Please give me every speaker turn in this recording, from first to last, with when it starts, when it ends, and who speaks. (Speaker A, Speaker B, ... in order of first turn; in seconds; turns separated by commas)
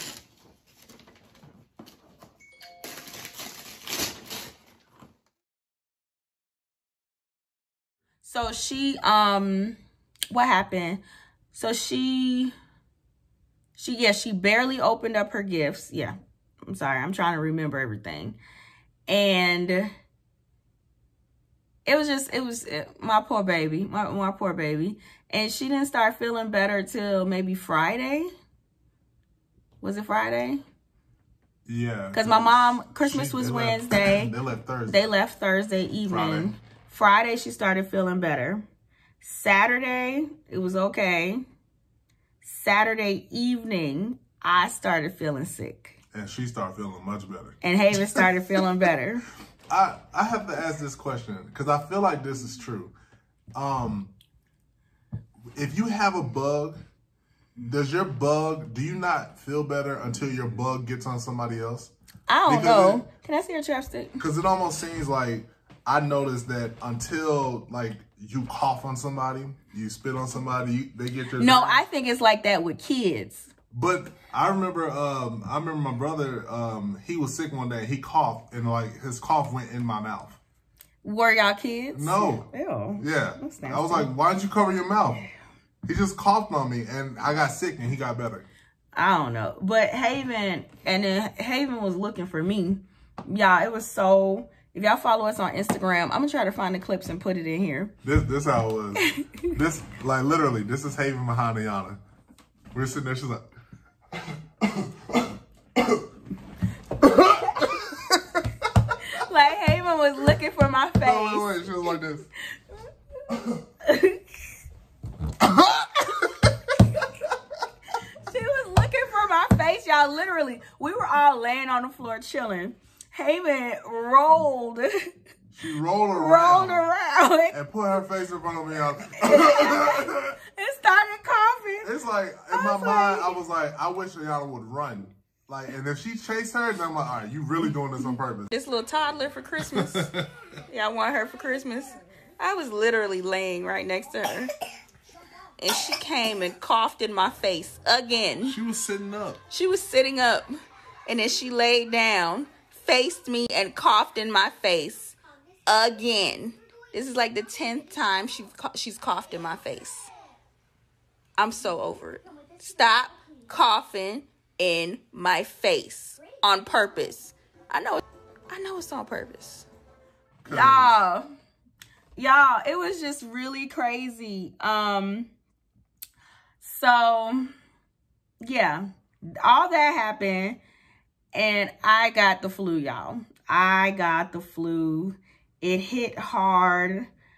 Speaker A: 8.2-9.8, Speaker A: 10.3-12.5, Speaker A: 13.8-16.1, Speaker A: 16.6-18.4, Speaker A: 19.1-19.9, Speaker A: 21.9-28.3, Speaker A: 29.8-30.6, Speaker B: 31.7-35.0, Speaker A: 32.1-34.3, Speaker A: 34.9-38.6, Speaker B: 36.0-36.5, Speaker A: 39.2-41.4, Speaker A: 42.4-46.0, Speaker B: 46.1-48.3, Speaker A: 47.6-49.3, Speaker B: 49.7-52.9, Speaker B: 53.5-54.1, Speaker B: 55.5-56.8, Speaker B: 57.6-61.9, Speaker A: 62.3-64.2, Speaker B: 62.5-63.0, Speaker B: 64.2-71.8, Speaker A: 71.3-73.5, Speaker B: 73.7-80.4, Speaker A: 81.0-84.1, Speaker B: 81.9-82.5, Speaker B: 83.0-85.2, Speaker B: 85.8-88.5, Speaker A: 88.9-97.9, Speaker B: 98.0-102.0, Speaker A: 99.0-99.5, Speaker B: 102.7-103.5, Speaker B: 104.3-106.0, Speaker B: 107.0-108.4, Speaker A: 109.1-112.0, Speaker B: 111.0-112.3, Speaker A: 113.8-114.3, Speaker B: 115.4-116.7, Speaker A: 118.2-125.1, Speaker B: 125.5-126.9, Speaker A: 126.1-127.5, Speaker B: 127.5-130.4, Speaker A: 129.2-131.9, Speaker B: 131.8-138.5, Speaker A: 132.5-133.4, Speaker A: 138.5-140.1, Speaker B: 139.7-140.3, Speaker A: 140.7-144.5, Speaker A: 145.6-148.6, Speaker B: 148.4-149.4, Speaker A: 149.5-150.5, Speaker A: 151.1-160.1, Speaker A: 161.4-169.7, Speaker B: 170.4-171.0, Speaker A: 170.5-171.2, Speaker A: 172.2-175.3, Speaker A: 176.6-177.5, Speaker A: 178.4-180.6, Speaker A: 181.3-187.1